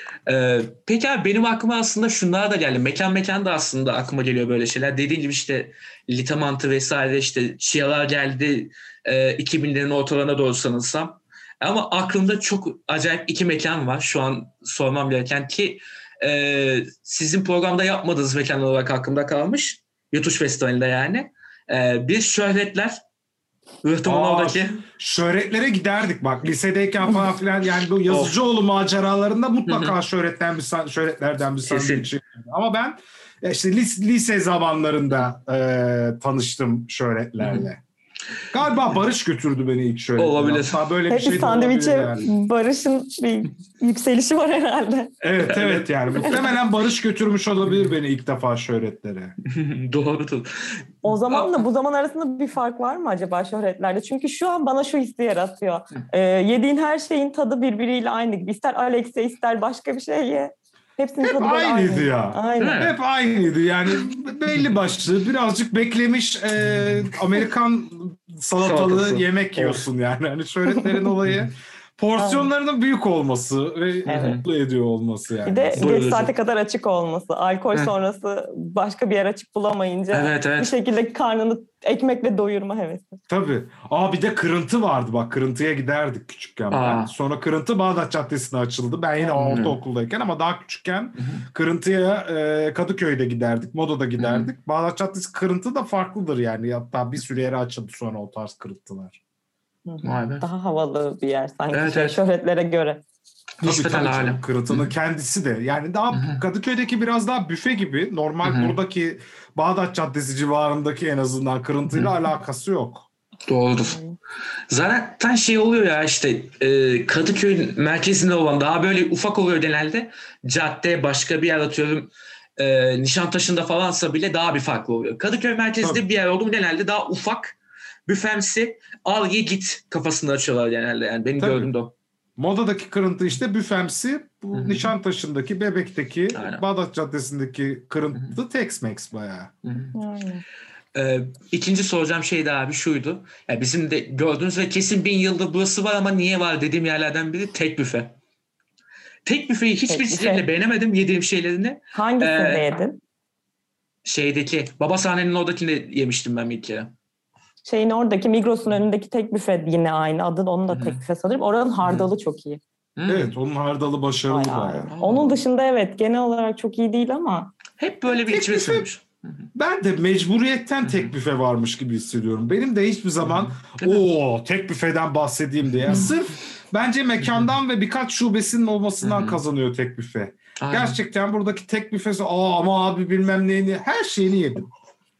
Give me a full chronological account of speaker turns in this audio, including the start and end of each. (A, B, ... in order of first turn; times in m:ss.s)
0:00.3-0:23.0 A
0:23.8-0:24.8 A
0:24.0-0:37.8 B
0:28.1-0:28.4 A
0:29.7-0:29.9 A
0:31.6-0:32.1 A
0:37.4-0:37.7 A
0:38.5-0:42.3 B
0:40.2-0:40.8 A
0:41.1-0:45.1 C
0:45.2-0:49.4 B
0:45.4-0:46.4 A
0:49.4-0:51.6 A
0:51.0-1:02.9 C
1:01.2-1:15.8 B
1:02.6-1:02.9 A
1:08.6-1:09.9 A
1:12.2-1:12.5 C
1:14.1-1:14.4 C
1:14.1-1:14.4 A
1:15.4-1:23.2 C
1:15.8-1:16.3 A
1:20.1-1:20.7 A
1:23.3-1:39.2 B
1:26.7-1:27.1 A
1:29.3-1:29.8 A
1:31.2-1:31.4 A
1:34.2-1:34.5 A
1:39.9-1:43.0 C
1:40.0-1:40.4 A
1:41.7-1:42.2 A
1:43.6-1:44.9 A
1:43.6-1:53.1 B
1:46.1-1:46.4 A
1:48.4-1:48.8 A
1:53.5-1:54.0 A
1:53.9-1:54.2 C
1:54.7-2:11.9 A
2:11.4-2:11.7 B
2:12.4-2:19.5 B
2:14.5-2:14.9 A
2:16.4-2:16.6 A
2:19.6-2:20.0 A
2:20.0-2:20.4 C
2:21.0-2:28.2 A
2:29.2-2:32.6 A
2:29.9-2:30.4 C
2:31.9-2:33.0 C
2:34.0-2:36.9 A
2:37.7-2:42.6 C
2:40.7-2:41.0 A
2:41.8-2:42.1 A
2:43.0-2:43.4 A
2:43.1-2:44.9 B
2:44.3-2:47.5 C
2:44.9-2:45.4 A
2:47.8-2:49.5 A
2:48.1-2:48.9 B
2:49.6-3:04.7 B
2:50.8-2:51.1 A
2:53.2-2:54.0 A
2:59.0-2:59.4 A
3:00.6-3:01.0 A